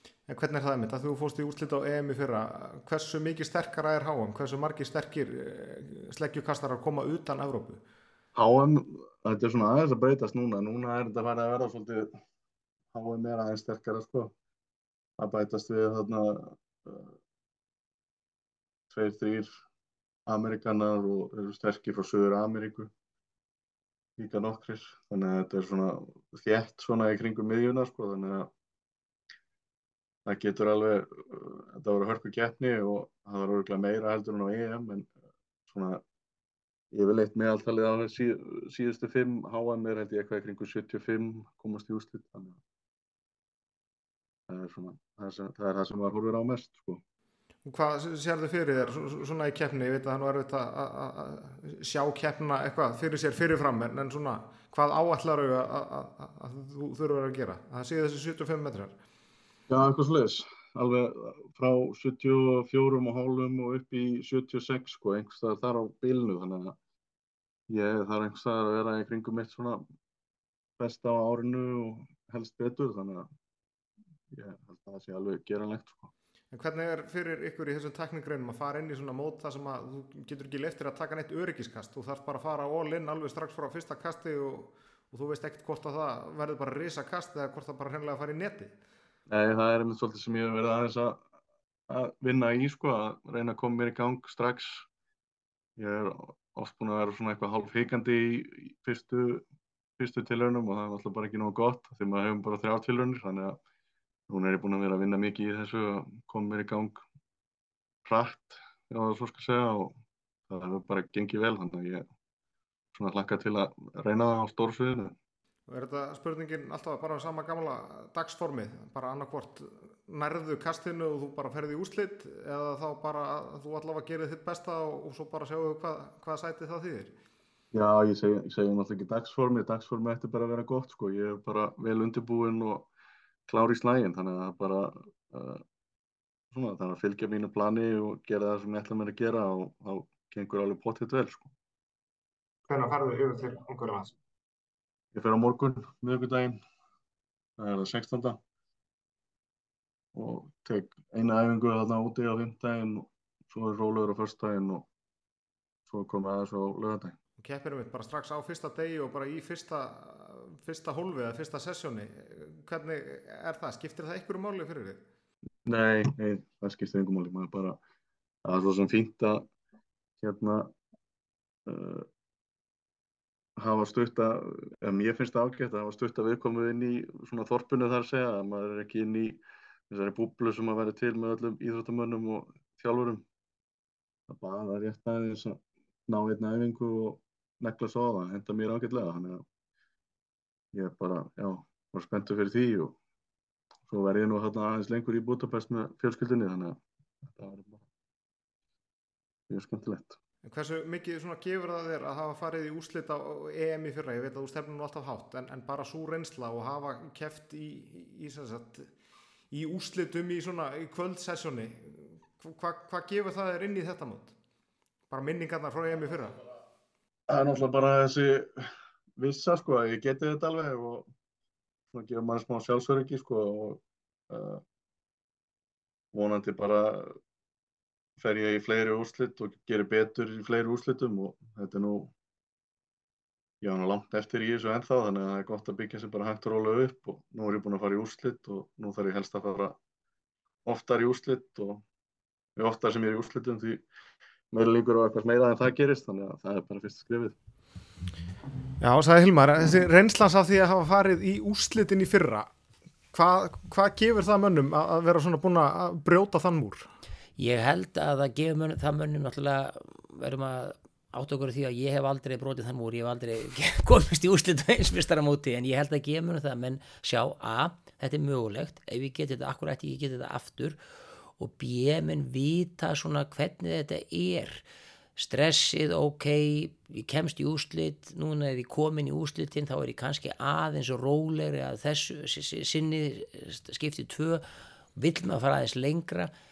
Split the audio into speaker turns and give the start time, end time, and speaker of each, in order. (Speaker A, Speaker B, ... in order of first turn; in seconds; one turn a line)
Speaker A: 0.3-7.8
Speaker B: 8.3-12.1
Speaker B: 12.9-14.3
Speaker B: 15.2-17.1
Speaker B: 18.9-19.5
Speaker B: 20.3-22.9
Speaker B: 24.2-28.5
Speaker B: 30.3-35.1
Speaker B: 35.7-36.0
Speaker B: 36.9-42.6
Speaker B: 44.5-47.0
Speaker A: 47.6-59.0
Speaker B: 59.7-66.8
Speaker B: 67.7-69.8
Speaker B: 70.8-73.3
Speaker B: 74.3-76.1
Speaker A: 76.5-88.7
Speaker B: 89.3-91.2
Speaker B: 91.9-94.9
Speaker B: 95.8-99.5
Speaker B: 100.0-103.6
Speaker B: 104.3-107.0
Speaker B: 108.0-110.0
Speaker B: 110.5-112.1
Speaker B: 112.9-115.2
Speaker A: 115.7-127.1
Speaker B: 127.7-132.9
Speaker B: 133.5-135.6
Speaker B: 136.5-141.5
Speaker A: 142.7-144.1
Speaker B: 145.1-146.6
Speaker B: 147.6-148.4
Speaker B: 150.1-154.9
Speaker B: 155.9-157.2
Speaker A: 157.4-165.1
Speaker B: 165.7-167.8
Speaker B: 168.4-169.5
Speaker B: 170.2-170.7
Speaker B: 171.7-172.1
Speaker B: 173.6-183.2
Speaker B: 184.3-189.4
Speaker B: 190.7-193.0
Speaker B: 193.9-197.8
Speaker B: 199.5-200.2
Speaker A: 200.4-208.9
Speaker A: 209.5-214.3
Speaker A: 215.1-216.4
Speaker B: 217.3-221.1
Speaker B: 221.9-224.6
Speaker B: 226.1-227.2
Speaker B: 228.2-232.1
Speaker B: 233.6-239.8
Speaker B: 240.7-241.8
Speaker B: 242.6-243.8
Speaker B: 244.5-247.4
Speaker A: 248.8-252.5
Speaker A: 253.1-256.9
Speaker C: 257.4-270.8
Speaker C: 271.4-274.6
Speaker C: 275.2-284.4
Speaker C: 285.0-286.3